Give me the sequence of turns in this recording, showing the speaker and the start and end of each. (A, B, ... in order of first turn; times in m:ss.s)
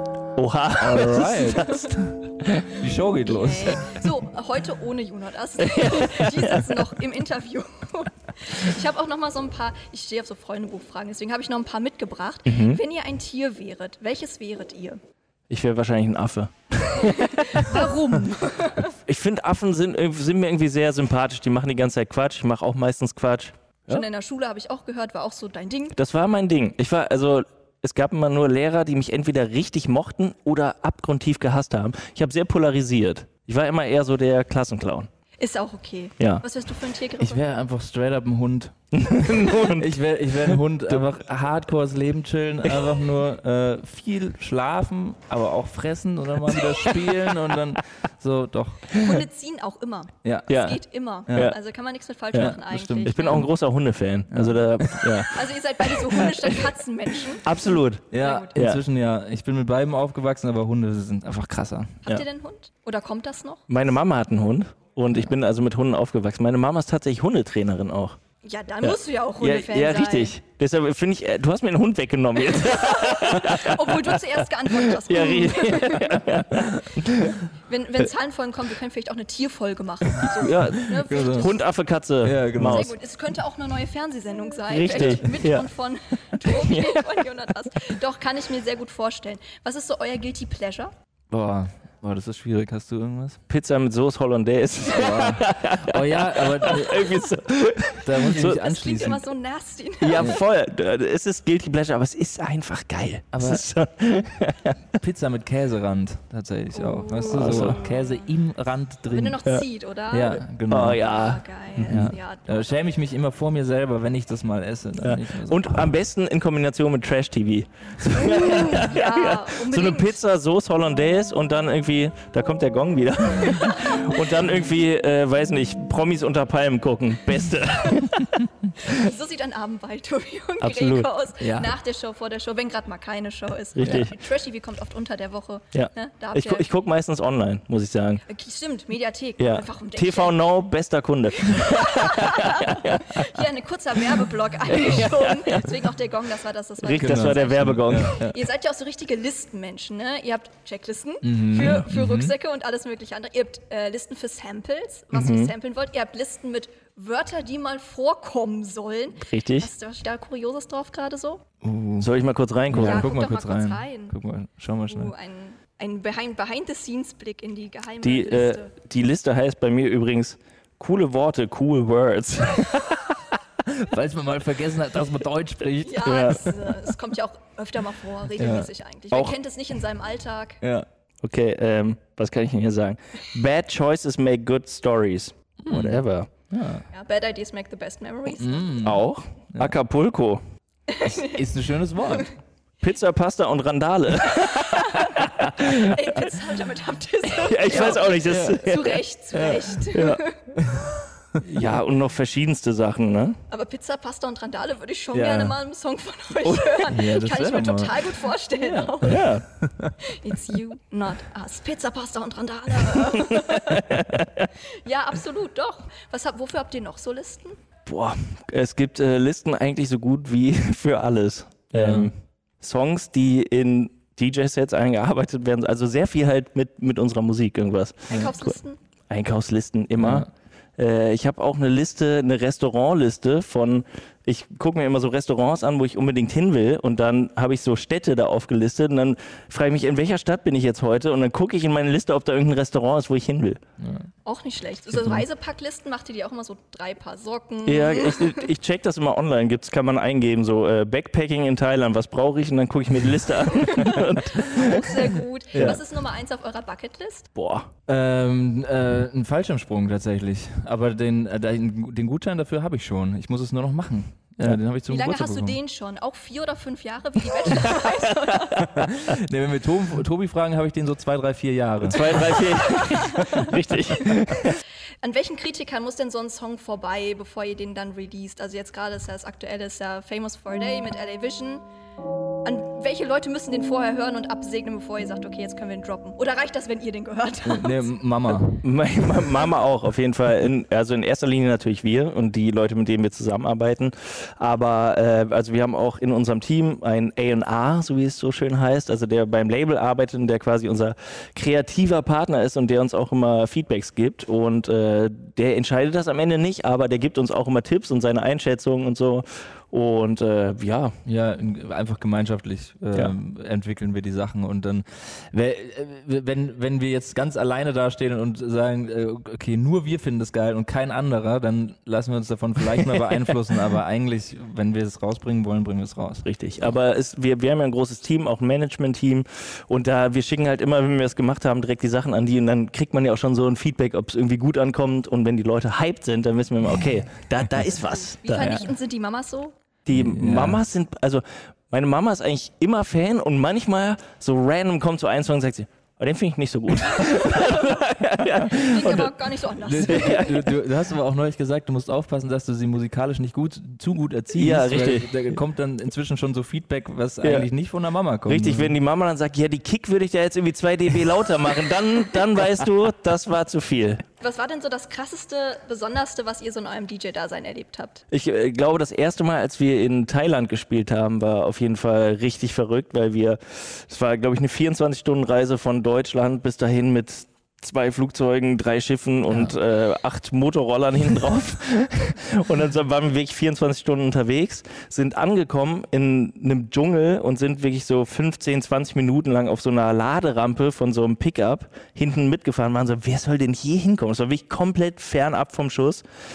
0:00.4-0:02.7 A
0:00.8-0:02.2 B
0:02.7-0:03.8 B
0:03.2-0:15.0 C
0:05.6-0:06.9 A
0:12.4-0:12.8 A
0:15.5-0:17.9 A
0:17.0-0:18.9 C
0:18.9-0:24.0 A
0:23.9-0:26.0 C
0:26.0-0:35.1 A
0:35.4-0:37.4 C
0:37.2-0:49.2 B
0:38.9-0:39.9 A
0:40.5-0:41.0 A
0:48.9-0:53.5 C
0:50.2-0:50.5 B
0:50.5-0:51.6 A
0:51.3-0:51.5 B
0:52.3-0:53.5 B
0:52.3-0:55.4 A
0:54.3-0:55.2 B
0:55.3-0:57.5 C
0:57.4-0:58.8 A
0:58.1-1:02.0 B
0:58.2-0:58.6 C
1:02.0-1:03.6 C
1:03.7-1:08.2 A
1:08.4-1:10.4 C
1:08.8-1:17.4 A
1:12.5-1:16.2 C
1:17.3-1:21.6 C
1:20.4-1:22.9 A
1:20.8-1:21.5 B
1:22.2-1:22.9 B
1:22.6-1:30.9 C
1:24.7-1:25.7 A
1:24.9-1:25.3 B
1:26.4-1:27.0 A
1:31.3-1:33.4 B
1:33.5-1:38.6 A
1:34.9-1:37.3 B
1:38.0-1:39.3 B
1:38.5-1:40.4 C
1:40.0-1:44.8 A
1:43.3-1:43.6 B
1:45.0-1:49.4 B
1:46.7-1:48.3 C
1:47.2-1:47.8 A
1:49.1-1:52.9 C
1:50.1-1:51.0 B
1:50.7-1:52.1 A
1:51.8-1:55.9 B
1:55.0-2:08.4 A
1:58.4-2:00.2 C
2:03.4-2:03.8 C
2:08.7-2:16.7 C
2:10.6-2:11.1 A
2:11.4-2:11.7 B
2:13.7-2:14.1 A
2:13.8-2:14.1 B
2:15.7-2:18.2 A
2:18.3-2:20.4 C
2:19.4-2:23.4 A
2:21.4-2:41.4 C
2:24.7-2:25.7 A
2:26.8-2:28.2 A
2:27.0-2:28.4 B
2:31.2-2:32.3 B
2:35.1-2:35.5 A
2:39.2-2:39.7 A
2:41.6-2:42.1 B
2:42.0-2:43.1 A
2:42.7-2:45.1 B
2:42.8-2:44.1 C
2:44.9-2:48.7 C
2:48.0-2:53.2 A
2:53.6-2:56.2 B
2:55.8-3:00.6 C
2:56.0-2:56.6 A
2:58.4-2:58.7 B
3:00.6-3:00.8 B
3:01.2-3:06.3 A
3:05.6-3:06.8 B
3:06.9-3:08.8 C
3:08.4-3:09.7 B
3:08.8-3:10.4 A
3:10.9-3:11.4 C
3:11.0-3:12.3 B
3:12.8-3:16.0 A
3:14.3-3:20.4 C
3:17.4-3:19.0 A
3:18.2-3:18.7 B
3:19.3-3:19.8 B
3:19.9-3:20.2 A
3:20.6-3:21.0 B
3:21.4-3:23.4 A
3:23.5-3:29.3 C
3:25.1-3:25.6 B
3:26.5-3:30.0 B
3:29.0-3:29.4 A
3:30.0-3:33.8 C
3:32.9-3:34.5 A
3:34.8-3:37.6 C
3:37.8-3:48.6 A
3:41.7-3:42.1 B
3:48.1-3:48.8 C
3:49.1-4:03.6 A
3:50.0-3:50.3 B
4:04.2-4:08.5 C
4:07.6-4:15.8 A
4:13.5-4:17.3 C
4:17.3-4:17.7 A
4:17.9-4:25.6 B
4:24.9-4:28.7 C
4:28.6-4:33.4 B
4:31.8-4:34.6 A
4:32.6-4:33.3 C
4:35.0-4:41.6 C
4:42.4-4:48.0 C
4:47.4-4:48.6 B
4:48.6-5:11.0 A
5:11.0-5:26.2 B
5:22.8-5:23.1 A
5:26.2-5:38.6 A
5:38.2-5:39.5 C
5:38.4-5:38.7 B
5:39.8-5:49.1 A
5:39.9-5:40.6 B
5:47.0-5:47.7 C
5:48.5-5:50.3 C
5:49.6-5:58.7 B
5:49.8-5:50.5 A
5:54.3-5:55.2 A
5:57.2-5:57.5 A
5:58.2-6:04.0 A
6:04.2-6:08.0 C
6:08.1-6:36.0 A
6:19.3-6:19.6 B